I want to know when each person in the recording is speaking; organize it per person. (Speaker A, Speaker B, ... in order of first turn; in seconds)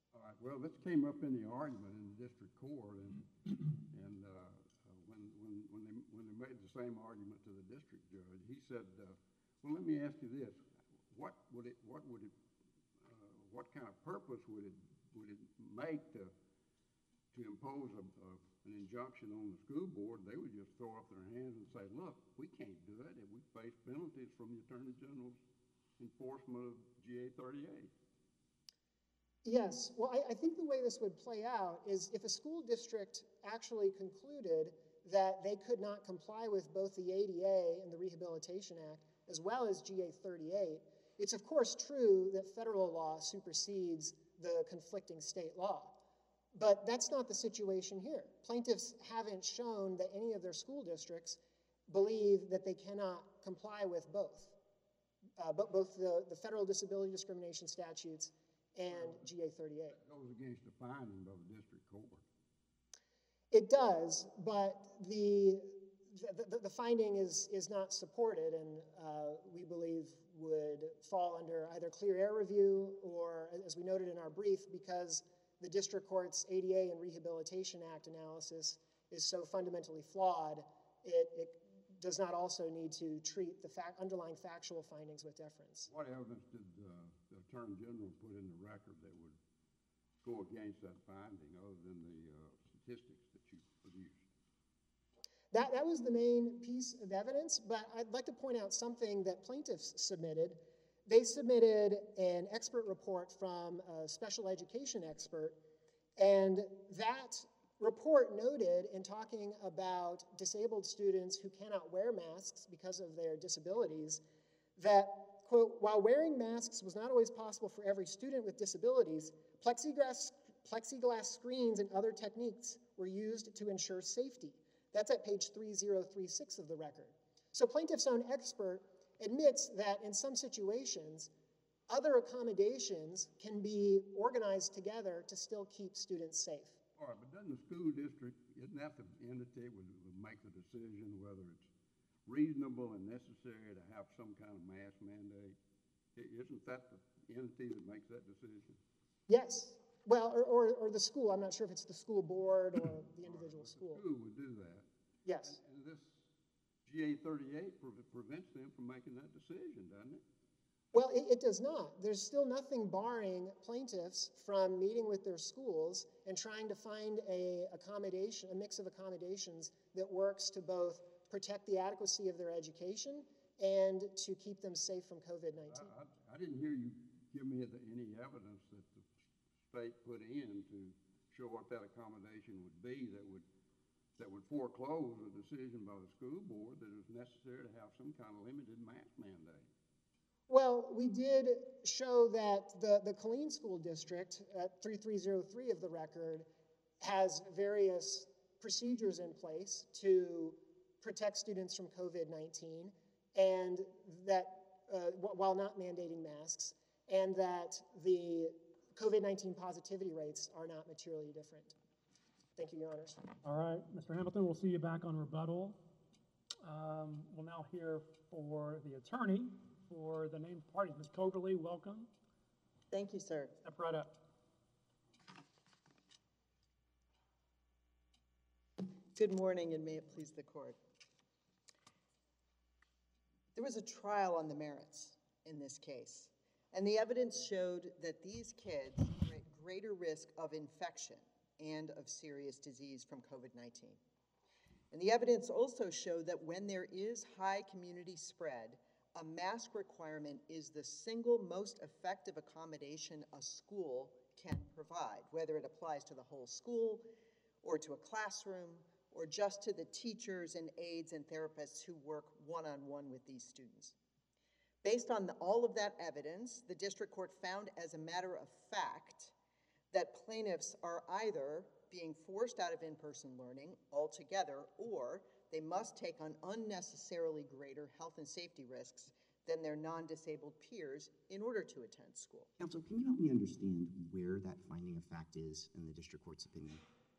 Speaker A: 0.1-12.3, 13.0-16.3, 17.3-25.4, 26.0-27.9, 58.9-59.3, 59.9-62.2, 85.9-89.4, 90.2-94.2, 137.0-141.7, 142.2-145.6, 146.1-148.8, 153.2-154.9, 155.4-156.2, 156.8-160.2, 175.7-179.1, 179.6-183.5, 184.2-189.7
Speaker B: 29.4-46.0, 46.5-54.5, 55.4-60.0, 63.5-85.9, 95.5-105.6, 106.2-114.2, 114.8-131.3, 131.9-136.8, 149.3-154.0, 155.2-155.6, 160.9-175.9, 190.5-196.5, 197.0-211.7, 212.6-213.2
Speaker C: 213.4-215.8, 216.6-222.1, 223.6-224.2
Speaker D: 222.9-223.5, 229.1-230.8, 233.5-244.0, 244.9-257.1, 257.6-263.9, 264.8-269.3, 269.9-282.5
Speaker E: 282.6-286.8